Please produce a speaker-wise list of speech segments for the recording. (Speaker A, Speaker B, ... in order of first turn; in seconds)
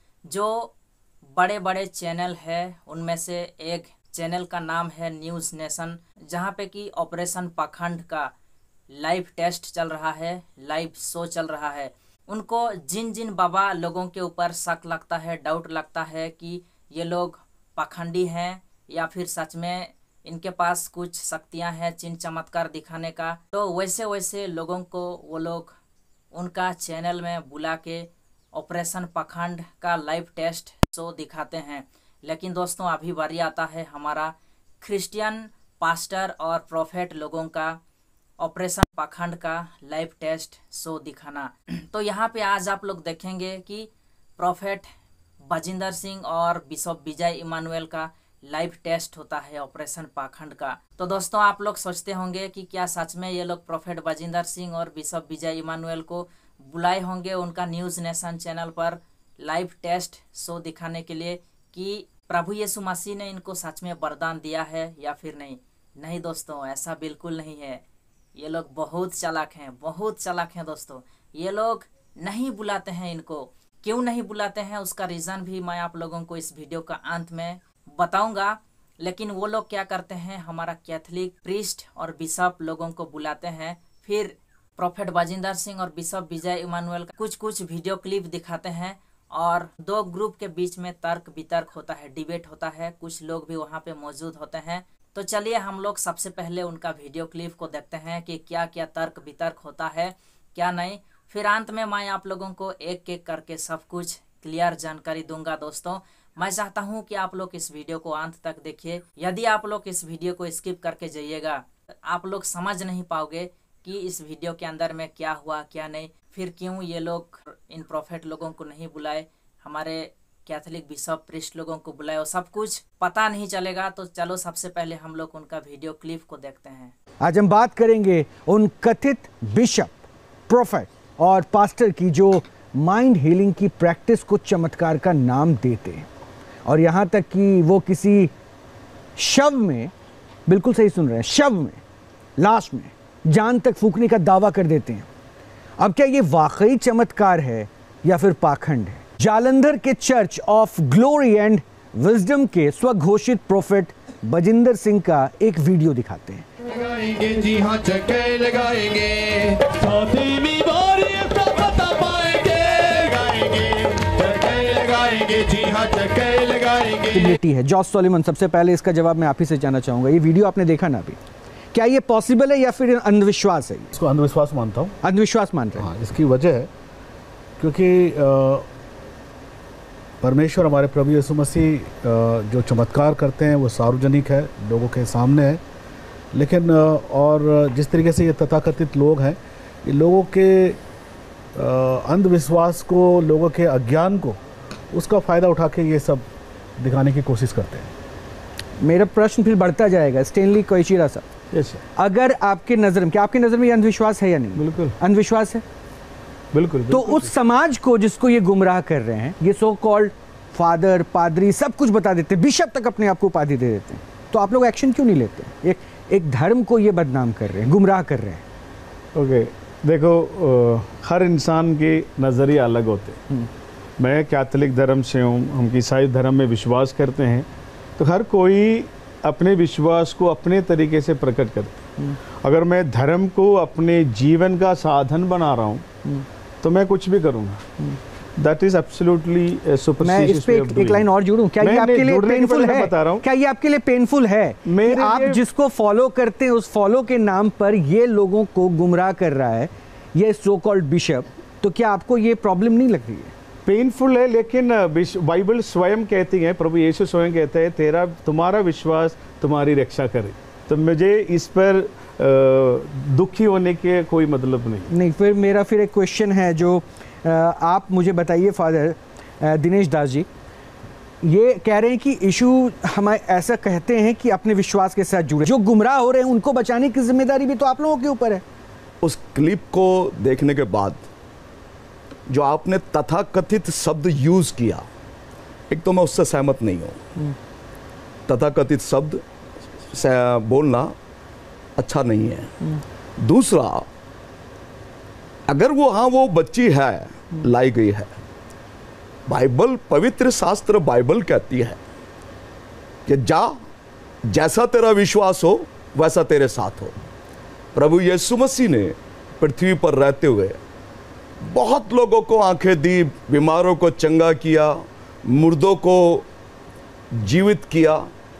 Speaker A: 0.3-0.7, 1.4-8.3, 8.9-25.8, 26.3-37.8, 38.4-44.9, 45.5-67.8, 68.4-126.9
Speaker B: 127.2-136.1, 136.7-138.3, 139.2-139.9, 140.5-141.8, 142.4-145.1, 145.8-156.5, 167.1-171.2, 171.7-173.9, 175.0-175.9, 198.8-201.3, 202.0-205.6, 206.9-218.4, 240.0-253.3, 264.9-270.3, 271.2-278.4
Speaker C: 156.7-167.0
Speaker D: 173.9-175.0, 175.8-176.7, 177.6-178.7, 180.2-185.6, 186.3-190.8, 191.6-194.4, 194.9-196.3, 196.8-197.9
Speaker E: 201.5-201.8, 204.6-204.9, 206.5-207.3, 219.2-223.2, 224.0-235.8, 236.6-237.7, 238.4-243.2, 244.7-245.4, 253.7-264.9
Speaker F: 279.0-281.1, 282.3-284.9, 285.7-287.0, 288.3-289.2, 289.9-290.9, 291.8-292.6, 293.2-293.9, 295.5-298.1, 299.3-301.8, 303.1-303.7, 304.3-307.0, 307.8-310.6, 311.4-316.3, 317.1-318.1